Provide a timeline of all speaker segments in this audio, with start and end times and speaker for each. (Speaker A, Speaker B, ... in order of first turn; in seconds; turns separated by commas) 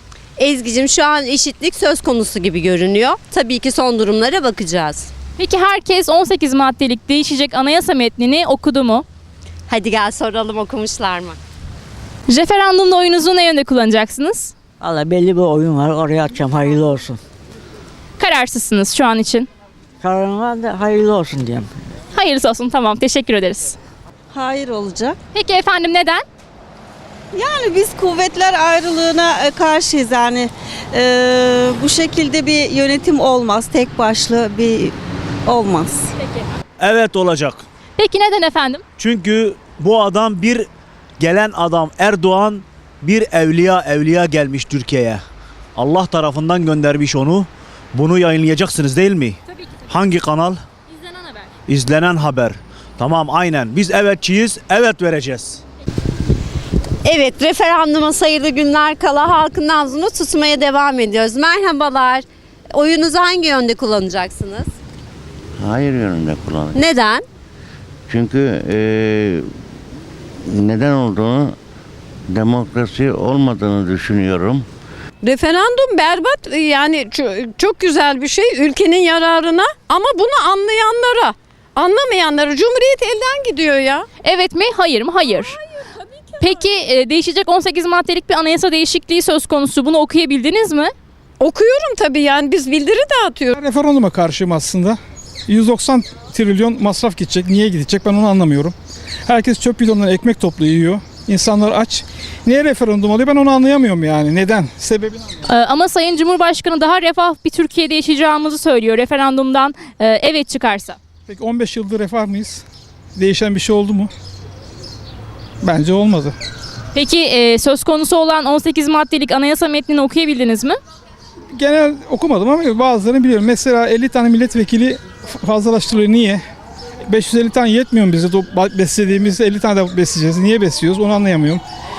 Speaker A: 0.4-5.1, Speaker B: 5.4-9.0, Speaker A: 9.7-11.4, Speaker B: 12.3-14.5, Speaker C: 14.8-17.2, Speaker B: 18.2-19.5, Speaker C: 20.0-21.7, Speaker B: 22.1-23.8, Speaker D: 24.3-25.1, Speaker B: 25.3-26.2, Speaker D: 27.4-34.9, Speaker D: 35.5-35.9, Speaker E: 36.8-37.6, Speaker B: 38.0-38.8, Speaker E: 39.0-40.6, Speaker E: 41.2-45.2, Speaker E: 45.8-49.4, Speaker E: 49.9-50.5, Speaker B: 50.9-51.4, Speaker E: 51.7-55.6, Speaker A: 57.0-64.7, Speaker F: 65.6-66.7, Speaker A: 66.7-67.2, Speaker F: 68.1-69.4, Speaker F: 70.5-71.5, Speaker F: 72.3-74.6, Speaker G: 75.2-84.0, Speaker B: 84.2-85.6, Speaker B: 86.4-90.9, Speaker G: 91.4-93.5, Speaker H: 93.5-98.7, Speaker H: 99.3-105.4, Speaker B: 105.5-111.0, Speaker H: 111.3-112.6, Speaker H: 113.2-114.1, Speaker H: 115.6-116.3, Speaker B: 116.9-120.8, Speaker H: 121.5-126.4, Speaker H: 127.0-131.6